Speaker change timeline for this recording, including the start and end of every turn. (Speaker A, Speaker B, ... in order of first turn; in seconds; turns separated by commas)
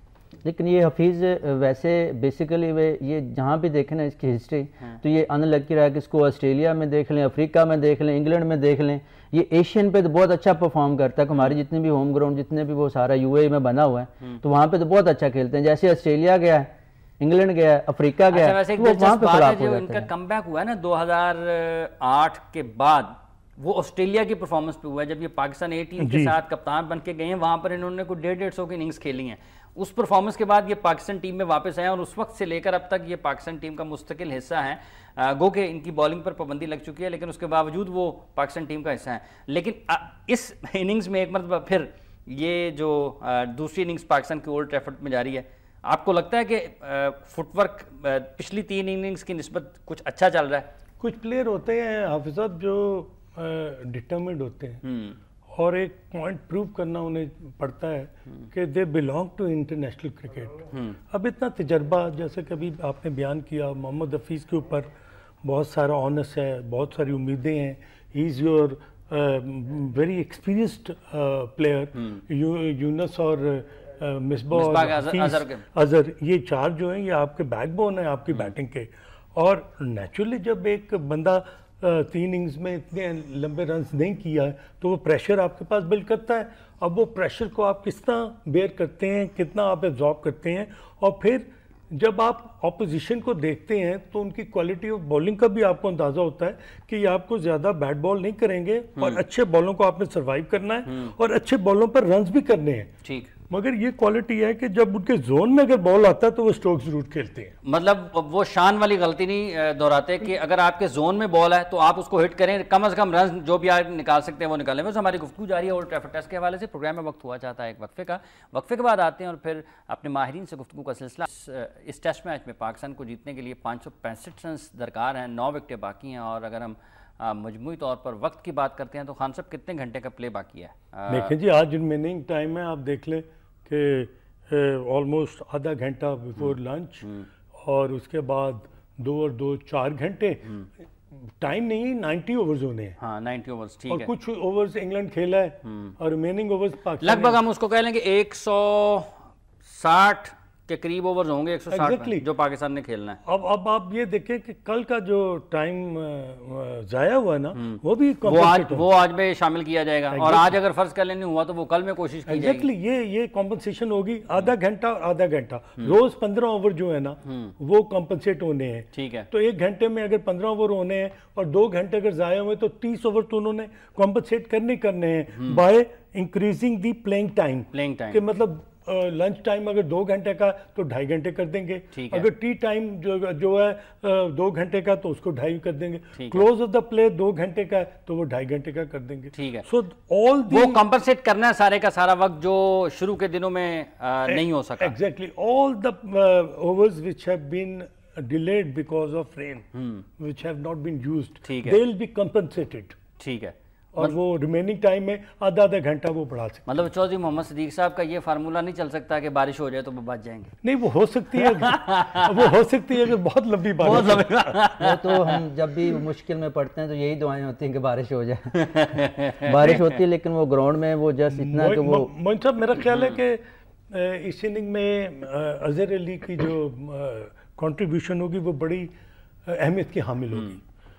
Speaker A: 0.4-20.1, Speaker B: 18.3-50.7, Speaker C: 26.0-26.3, Speaker C: 51.0-54.8, Speaker B: 54.8-55.2, Speaker C: 55.5-64.9, Speaker B: 60.7-61.0, Speaker C: 65.4-102.9, Speaker B: 74.5-75.6, Speaker B: 100.8-101.1, Speaker B: 103.0-103.3, Speaker C: 103.5-107.5, Speaker B: 107.6-131.3, Speaker C: 131.1-140.5, Speaker C: 141.2-142.9, Speaker B: 143.0-144.1, Speaker C: 143.9-147.4, Speaker B: 145.7-145.9, Speaker B: 147.0-149.1, Speaker B: 149.6-153.2, Speaker C: 151.7-152.2, Speaker C: 153.2-158.8, Speaker B: 157.5-162.7, Speaker C: 160.1-160.6, Speaker C: 162.3-190.8, Speaker B: 167.2-167.5, Speaker B: 168.9-169.3, Speaker B: 175.3-175.6, Speaker B: 177.7-178.2, Speaker B: 181.9-182.2, Speaker B: 186.2-186.4, Speaker B: 189.3-189.7, Speaker B: 190.5-194.9, Speaker C: 194.2-199.7, Speaker B: 199.7-200.0, Speaker C: 200.2-203.0, Speaker B: 201.4-201.8, Speaker B: 203.2-204.1, Speaker C: 203.9-206.7, Speaker B: 206.7-210.5, Speaker C: 210.6-214.6, Speaker B: 211.4-212.5, Speaker B: 213.8-215.4, Speaker A: 214.7-218.9, Speaker B: 218.5-220.0, Speaker A: 219.4-222.1, Speaker C: 221.3-228.9, Speaker B: 222.9-223.2, Speaker C: 229.4-230.6